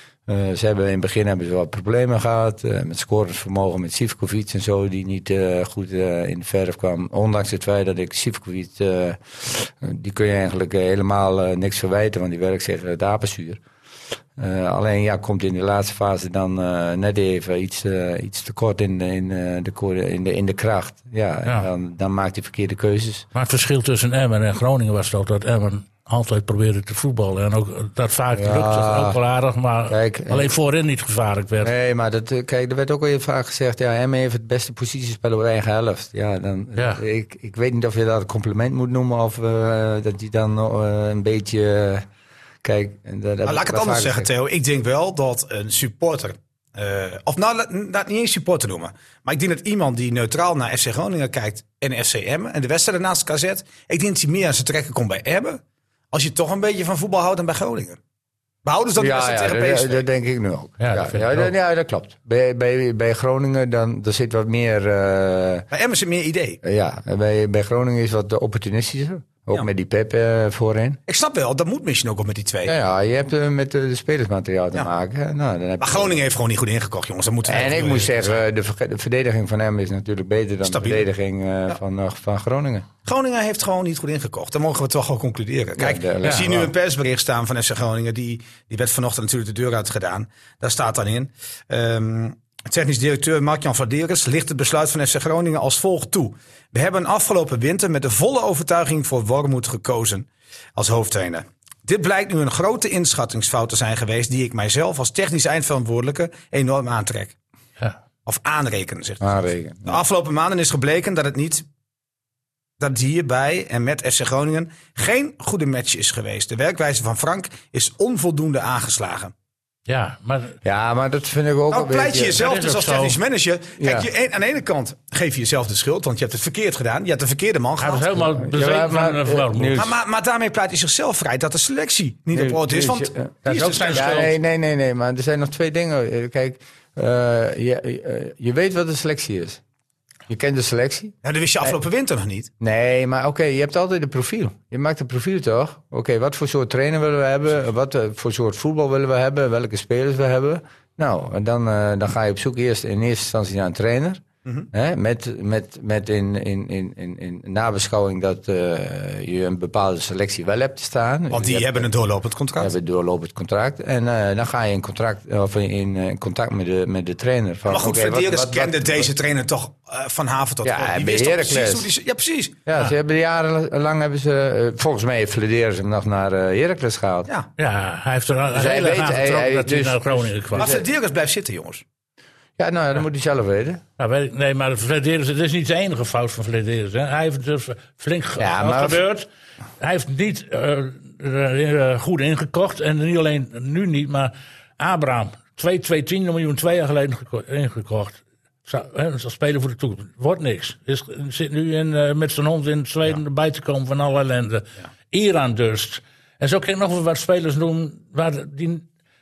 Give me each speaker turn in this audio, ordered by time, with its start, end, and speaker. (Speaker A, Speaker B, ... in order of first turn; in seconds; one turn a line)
Speaker A: 0.3-13.6
Speaker A: 14.4-23.2
Speaker B: 23.3-31.7
Speaker A: 28.3-29.2
Speaker A: 29.9-30.5
Speaker A: 31.6-42.0
Speaker A: 42.6-44.3
Speaker C: 43.4-55.6
Speaker C: 56.1-58.0
Speaker C: 58.6-60.0
Speaker A: 59.0-65.7
Speaker B: 60.8-61.5
Speaker C: 65.7-66.6
Speaker A: 66.6-71.0
Speaker C: 71.1-72.8
Speaker A: 72.7-76.2
Speaker C: 75.8-78.4
Speaker A: 77.4-82.9
Speaker C: 80.6-81.1
Speaker C: 83.0-107.3
Speaker A: 85.8-86.7
Speaker C: 108.2-111.6
Speaker A: 109.2-110.0
Speaker C: 112.8-119.3
Speaker B: 119.9-120.5
Speaker A: 120.6-122.4
Speaker C: 121.7-128.1
Speaker B: 122.4-123.2
Speaker A: 123.8-124.1
Speaker B: 127.8-129.8
Speaker A: 128.2-129.9
Speaker C: 129.8-134.2
Speaker A: 132.3-133.3
Speaker B: 133.4-134.3
Speaker A: 133.9-139.6
Speaker A: 140.3-141.7
Speaker C: 141.2-142.5
Speaker A: 142.6-161.9
Speaker C: 161.3-162.7
Speaker A: 162.6-169.1
Speaker C: 167.7-172.6
Speaker A: 170.6-171.9
Speaker A: 172.7-177.3
Speaker B: 177.6-180.8
Speaker A: 178.5-180.8
Speaker C: 180.6-181.8
Speaker A: 182.6-183.8
Speaker B: 184.0-189.3
Speaker A: 188.4-189.0
Speaker B: 189.8-208.8